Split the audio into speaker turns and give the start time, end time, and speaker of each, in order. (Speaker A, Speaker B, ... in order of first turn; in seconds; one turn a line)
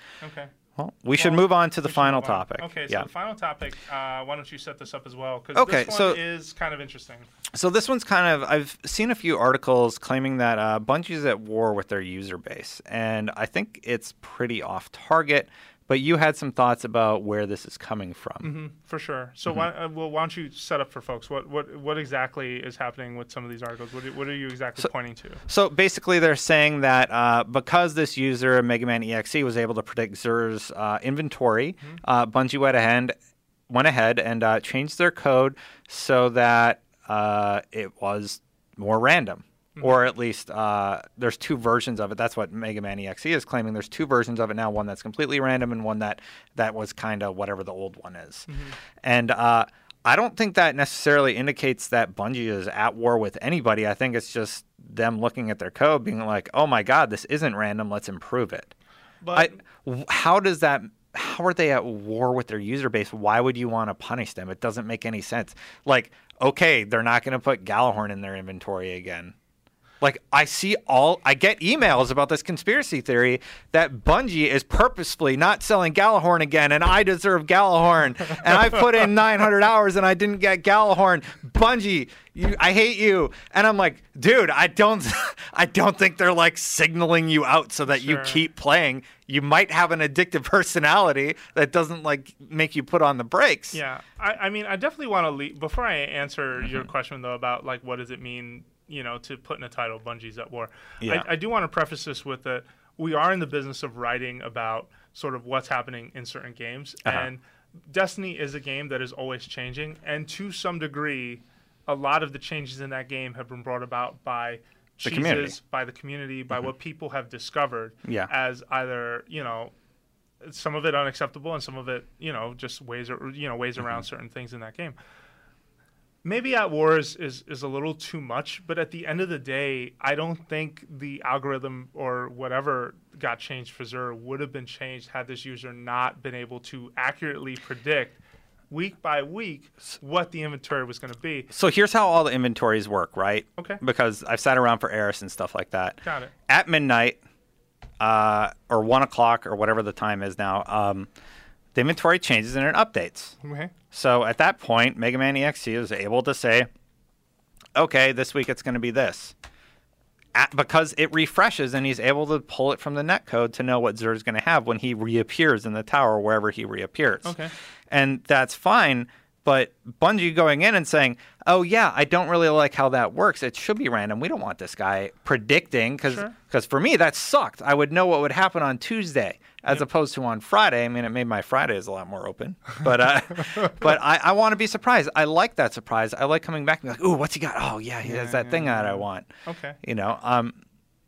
Speaker A: 0.2-0.5
Speaker B: 0.8-3.1
Speaker A: 1.1-7.3
Speaker B: 5.5-6.2
Speaker B: 7.5-18.5
Speaker A: 18.4-25.4
Speaker B: 25.5-33.1
Speaker B: 33.7-48.5
Speaker A: 39.8-40.0
Speaker A: 48.5-48.8
Speaker B: 49.0-58.7
Speaker A: 59.2-59.6
Speaker B: 59.3-69.3
Speaker B: 70.0-93.8
Speaker A: 87.9-88.4
Speaker A: 93.7-119.7
Speaker B: 101.0-101.3
Speaker B: 115.0-115.6
Speaker B: 118.0-118.3
Speaker A: 120.4-125.0
Speaker A: 126.2-138.2
Speaker A: 138.7-141.5
Speaker B: 141.5-147.2
Speaker A: 146.0-146.3
Speaker B: 148.0-151.1
Speaker B: 151.8-153.3
Speaker A: 153.4-153.7
Speaker B: 153.9-156.7
Speaker B: 157.8-159.3
Speaker B: 160.3-167.4
Speaker A: 167.2-167.5
Speaker B: 167.9-189.3
Speaker A: 176.1-176.3
Speaker A: 183.5-183.9
Speaker A: 188.0-189.8
Speaker B: 189.8-190.6